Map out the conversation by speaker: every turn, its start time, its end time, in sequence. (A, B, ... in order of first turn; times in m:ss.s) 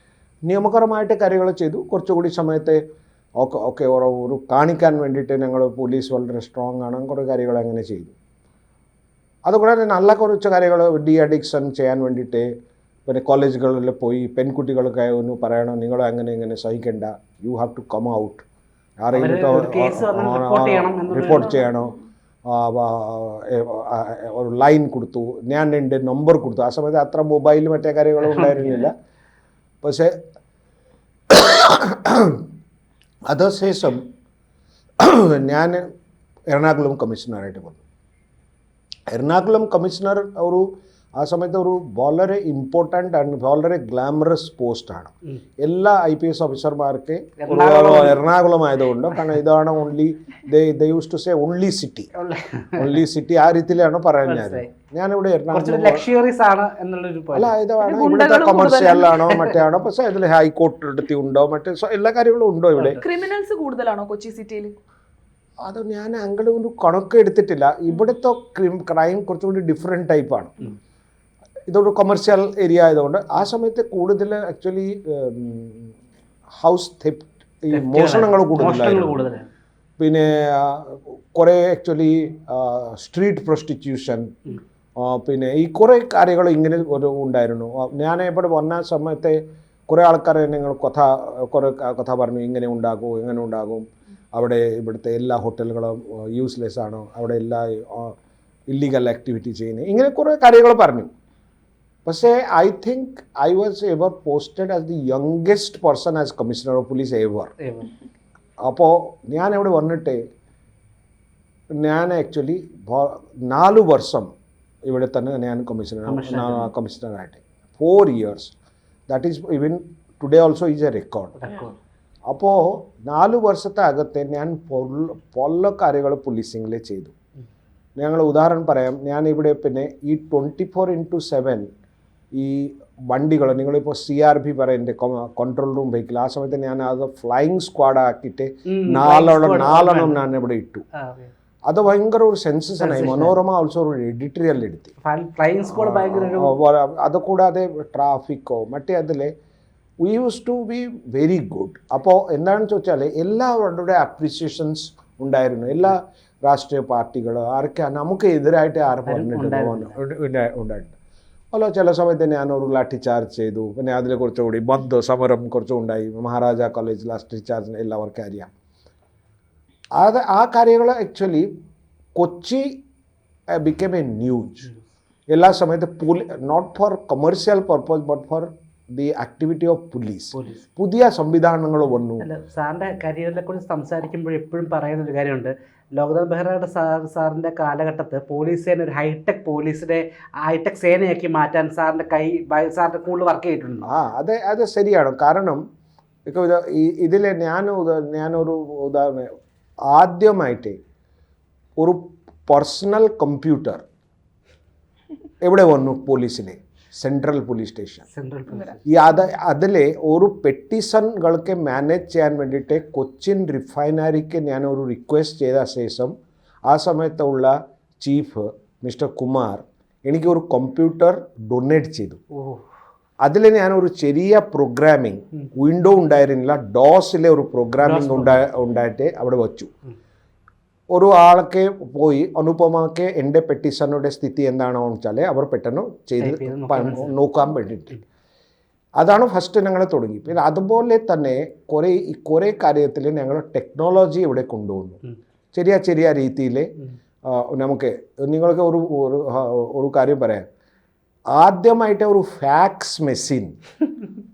0:00.5-0:02.8 A
0:03.4-0:08.1 A
0:09.5-0:12.5 A
0:13.1-0:18.4 A
0:19.0-0:28.9 A
0:19.1-0:21.6 B
0:28.2-0:28.9 B
0:29.8-0:30.2 A
0:31.3-0:32.4 A
0:33.3-0:34.0 A
0:35.0-0:35.9 A
0:36.5-0:37.8 A
0:39.1-0:40.6 A
0:41.2-0:52.1 A
0:47.4-0:48.2 B
0:52.2-0:53.0 B
0:52.8-0:56.1 A
0:54.2-0:54.7 B
0:55.5-0:57.6 B
0:57.3-1:03.0 A
0:57.8-0:59.4 C
1:02.8-1:03.0 B
1:03.0-1:04.7 C
1:05.6-1:10.7 A
1:11.7-1:16.0 A
1:16.5-1:19.2 A
1:17.7-1:19.5 B
1:20.0-1:24.3 A
1:25.0-1:38.2 A
1:38.7-1:41.1 A
1:42.1-1:47.5 A
1:47.6-1:47.9 B
1:48.6-1:50.2 A
1:51.7-1:54.3 A
1:54.9-1:58.5 A
1:56.1-1:56.7 B
1:59.1-2:01.5 A
2:01.4-2:01.8 B
2:02.3-2:07.1 A
2:08.0-2:11.7 A
2:12.4-2:20.8 A
2:18.7-2:20.3 B
2:21.0-2:21.3 B
2:21.7-2:24.9 A
2:22.8-2:23.4 B
2:25.0-2:26.6 B
2:25.7-2:29.3 A
2:30.0-2:41.0 A
2:39.1-2:40.0 B
2:41.5-2:48.5 A
2:50.0-2:51.5 A
2:52.2-2:52.7 A
2:53.6-2:54.7 A
2:55.3-3:02.3 A
3:00.3-3:00.7 B
3:02.2-3:13.9 B
3:13.8-3:15.6 A
3:16.3-3:19.3 A
3:19.9-3:20.8 A
3:21.8-3:23.8 A
3:25.4-3:28.0 A
3:28.1-3:28.9 B
3:28.9-3:36.1 A
3:36.7-3:42.2 A
3:42.3-3:42.6 B
3:43.2-3:49.7 A
3:47.8-3:48.4 B
3:50.9-3:58.0 A
3:56.2-3:57.2 B
3:59.0-4:05.0 A
4:05.5-4:06.7 A
4:07.3-4:10.5 A
4:11.3-4:13.6 A